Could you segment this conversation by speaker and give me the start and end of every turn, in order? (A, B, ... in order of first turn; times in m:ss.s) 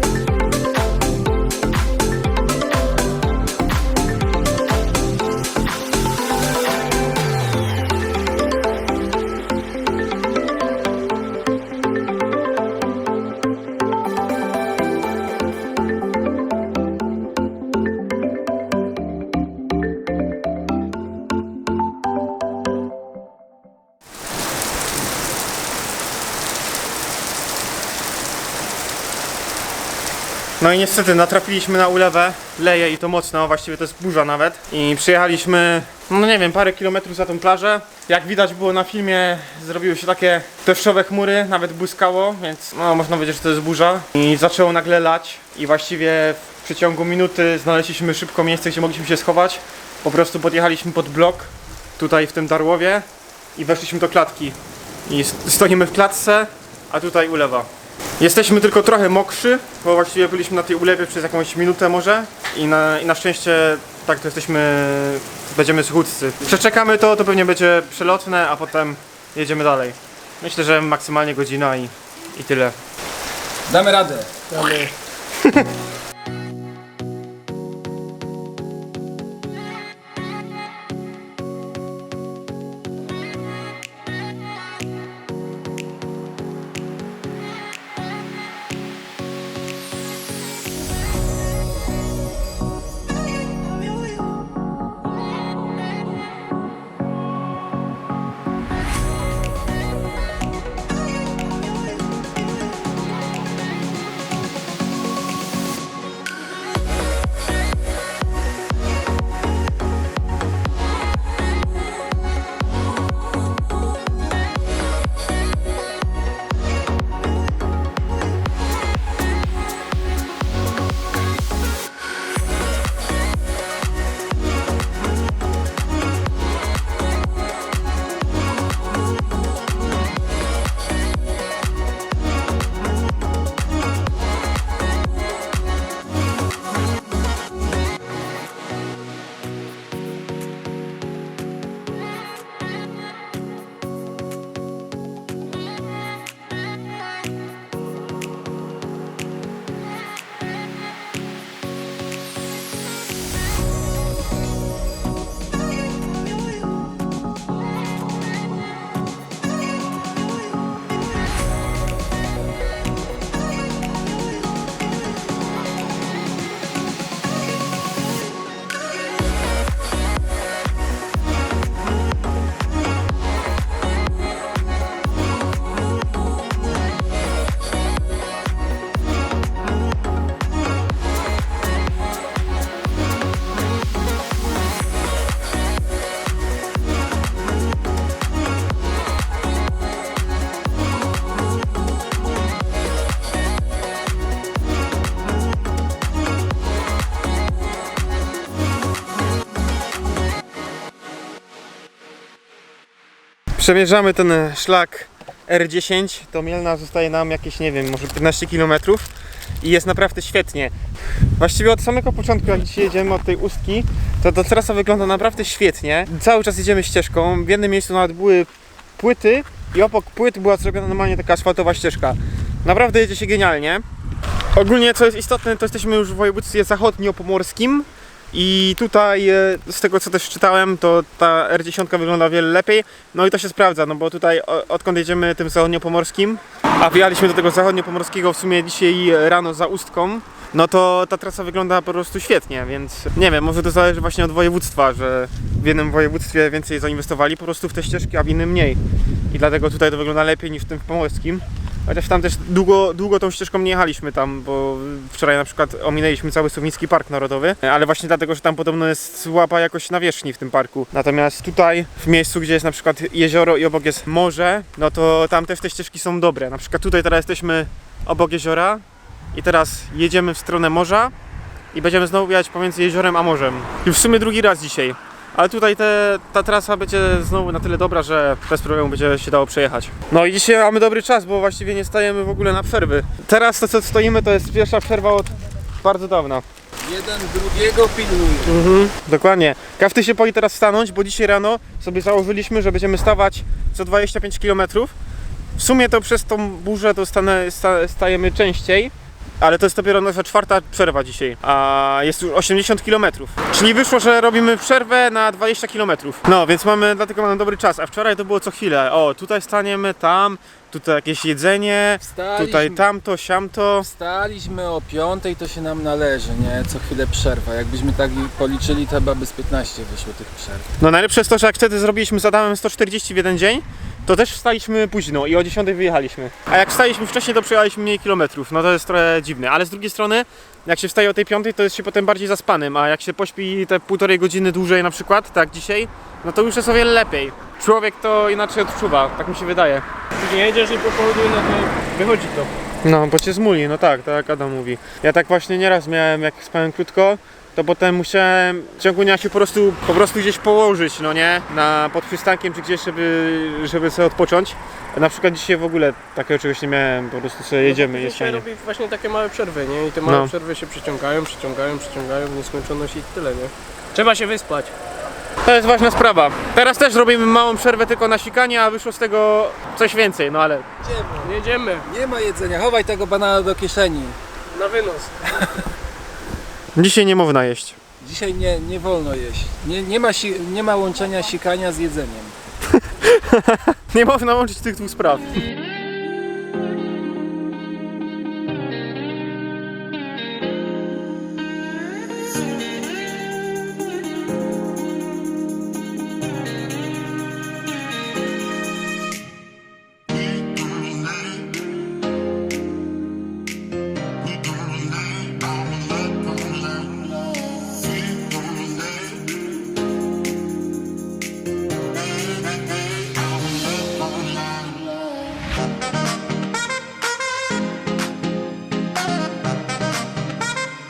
0:30.6-1:12.8 A
1:13.7-1:14.4 B
1:14.5-1:14.9 C
1:15.4-1:15.7 A
3:23.6-3:29.1 A
3:29.6-3:30.8 A
3:31.4-3:43.8 A
3:44.5-4:31.1 A
4:31.7-4:46.4 A
4:46.8-4:48.6 B
4:48.7-4:54.9 A
4:55.6-5:13.9 A
5:12.0-5:12.8 B
5:13.8-5:20.7 B
5:20.8-5:39.9 A
5:40.2-5:42.5 C
5:42.8-5:58.5 A
5:57.6-6:04.7 C
6:00.0-6:00.3 A
6:05.4-6:10.7 A
6:10.8-6:11.3 B
6:11.2-6:11.9 C
6:11.8-6:14.2 B
6:14.5-6:15.1 C
6:16.8-6:17.8 A
6:18.0-6:22.4 B
6:22.7-6:25.4 A